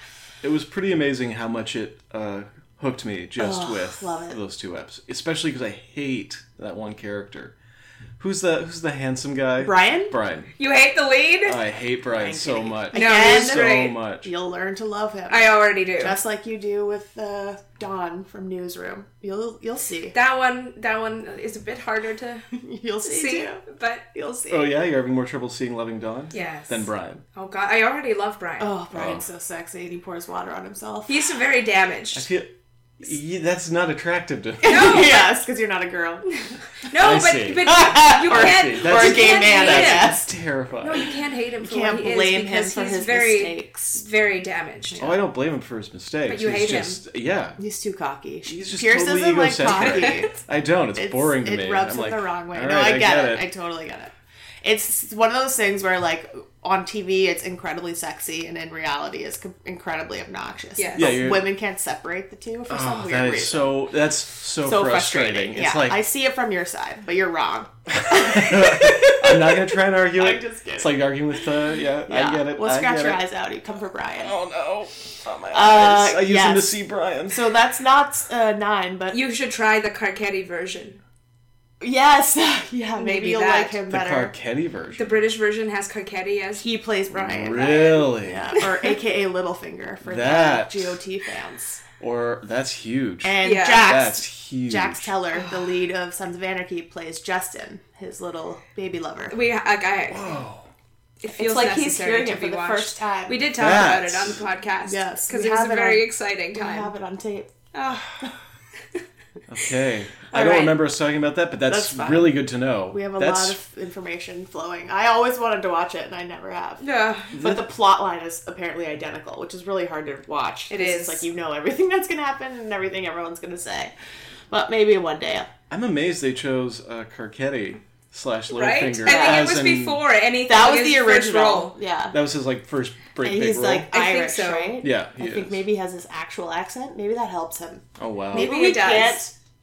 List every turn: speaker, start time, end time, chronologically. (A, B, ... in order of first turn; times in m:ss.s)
0:00.4-0:07.6 A
0:03.4-0:04.4 B
0:08.2-0:10.5 A
0:09.6-0:10.1 B
0:10.6-0:11.6 C
0:11.4-0:14.3 A
0:12.1-0:20.1 B
0:12.9-0:14.0 C
0:15.3-0:16.2 C
0:20.1-0:22.4 C
0:22.6-0:23.6 B
0:23.0-0:24.1 C
0:24.1-0:24.7 B
0:24.5-0:27.2 A
0:26.3-0:28.7 C
0:28.6-0:31.4 B
0:28.9-0:29.2 A
0:31.1-0:32.2 C
0:32.1-0:35.1 A
0:34.6-0:36.3 B
0:34.6-0:35.3 C
0:36.9-0:40.1 C
0:37.0-0:41.1 A
0:37.7-0:40.3 B
0:40.8-0:45.0 C
0:41.6-0:44.0 B
0:45.0-0:47.6 A
0:46.3-0:47.0 C
0:47.6-0:50.4 B
0:48.5-0:53.4 A
0:49.7-0:50.2 C
0:51.0-1:03.8 B
1:00.8-1:01.2 C
1:01.0-1:01.5 A
1:02.7-1:06.0 A
1:04.6-1:11.1 B
1:07.9-1:13.2 A
1:12.1-1:14.3 B
1:14.2-1:17.5 A
1:15.5-1:16.7 B
1:17.3-1:19.2 B
1:19.1-1:21.0 C
1:21.8-1:24.3 B
1:23.0-1:23.8 C
1:23.9-1:25.0 A
1:25.0-1:26.6 C
1:26.6-1:31.8 B
1:27.1-1:28.5 A
1:30.0-1:31.0 A
1:32.0-1:35.1 A
1:33.2-1:39.4 B
1:33.4-1:34.0 C
1:39.3-1:40.4 C
1:40.1-1:40.7 A
1:41.2-1:46.9 C
1:41.3-1:43.4 B
1:43.6-1:44.4 A
1:44.9-1:47.5 B
1:47.7-1:48.2 C
1:49.5-1:53.6 A
1:50.3-1:50.8 B
1:51.7-1:56.8 B
1:56.8-1:57.3 C
1:57.4-1:57.6 A
1:57.4-2:03.9 B
2:00.7-2:01.3 C
2:04.5-2:05.5 B
2:05.7-2:10.0 A
2:08.5-2:11.8 C
2:09.0-2:09.5 B
2:10.5-2:12.2 B
2:12.1-2:13.9 A
2:13.2-2:19.3 B
2:13.9-2:14.8 C
2:14.8-2:15.6 A
2:18.0-2:18.5 A
2:18.3-2:19.2 C